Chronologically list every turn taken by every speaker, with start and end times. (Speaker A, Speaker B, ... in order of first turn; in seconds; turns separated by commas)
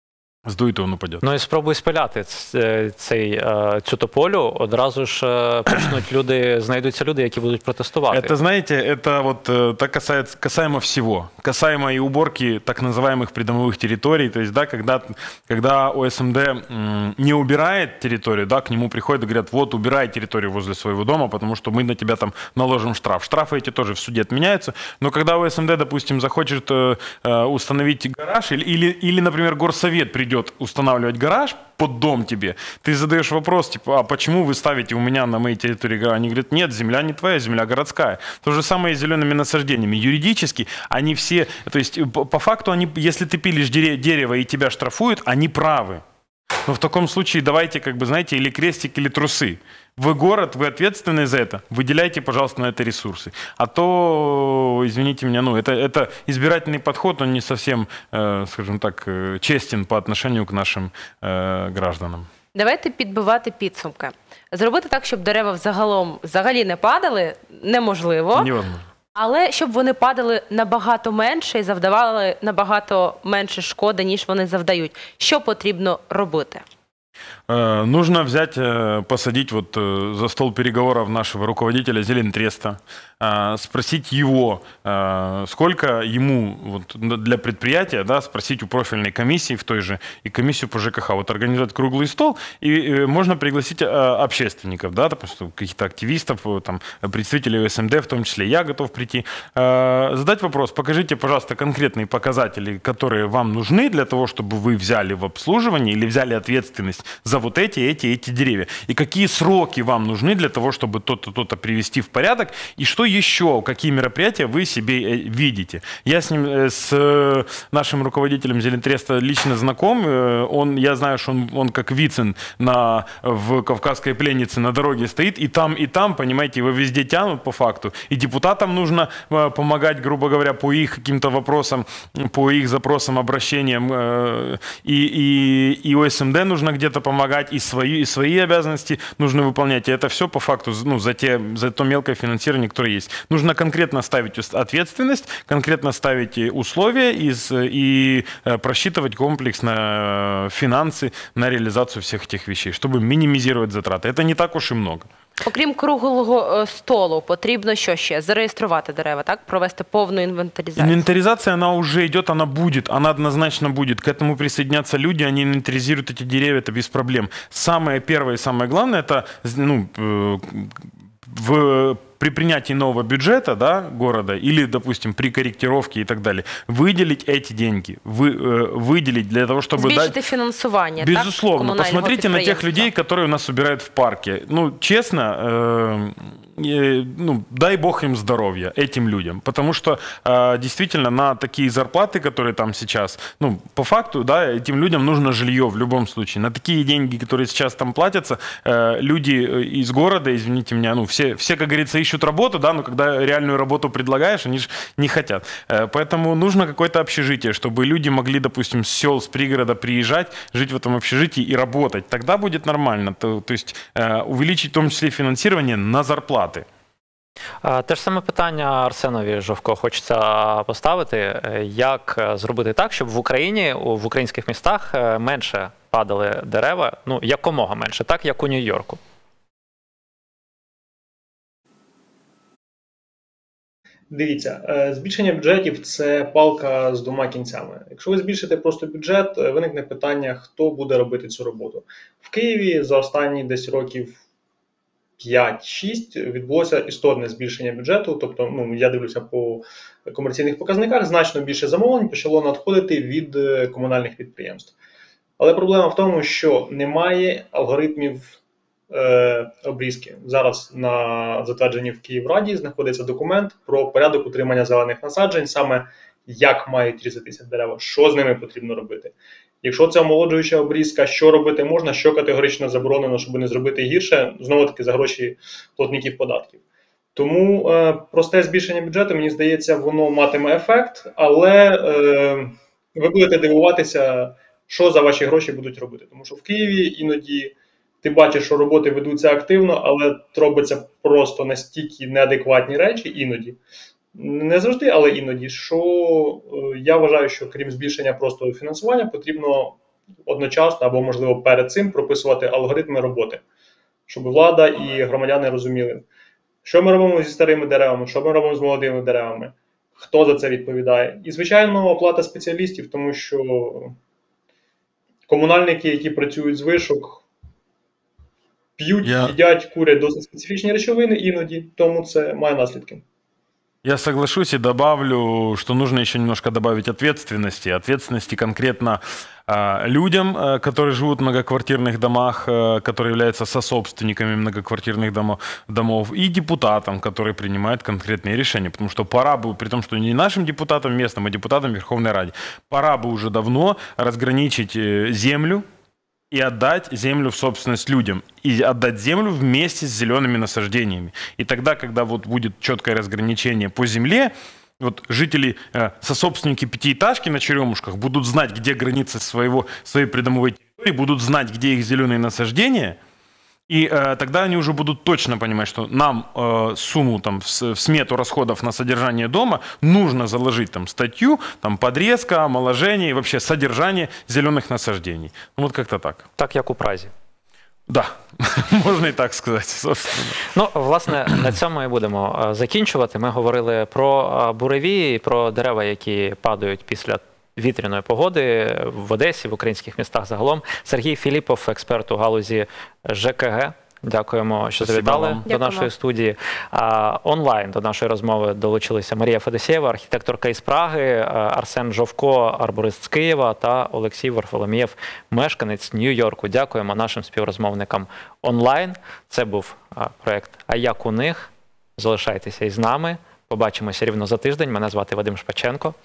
Speaker A: 0.5-1.2, Speaker B: 1.2-8.3, Speaker A: 8.1-46.0, Speaker A: 46.6-62.3, Speaker C: 62.5-68.5, Speaker A: 68.3-68.8, Speaker C: 69.1-76.6, Speaker A: 77.5-155.1, Speaker C: 155.4-161.0, Speaker A: 160.8-180.1, Speaker C: 179.8-182.9, Speaker A: 181.0-216.7, Speaker B: 217.6-229.0, Speaker D: 234.1-244.2, Speaker D: 245.2-254.7, Speaker D: 255.4-258.4, Speaker D: 258.9-276.6, Speaker D: 277.1-293.6, Speaker D: 294.1-303.4, Speaker D: 304.1-306.1, Speaker D: 306.6-314.0, Speaker D: 315.3-317.2, Speaker D: 318.8-323.0, Speaker A: 319.0-319.4, Speaker A: 323.8-345.6, Speaker A: 346.3-363.0, Speaker A: 363.7-376.2, Speaker B: 376.4-377.1, Speaker A: 377.9-380.4, Speaker B: 380.5-415.9, Speaker A: 394.8-395.4, Speaker C: 395.4-395.9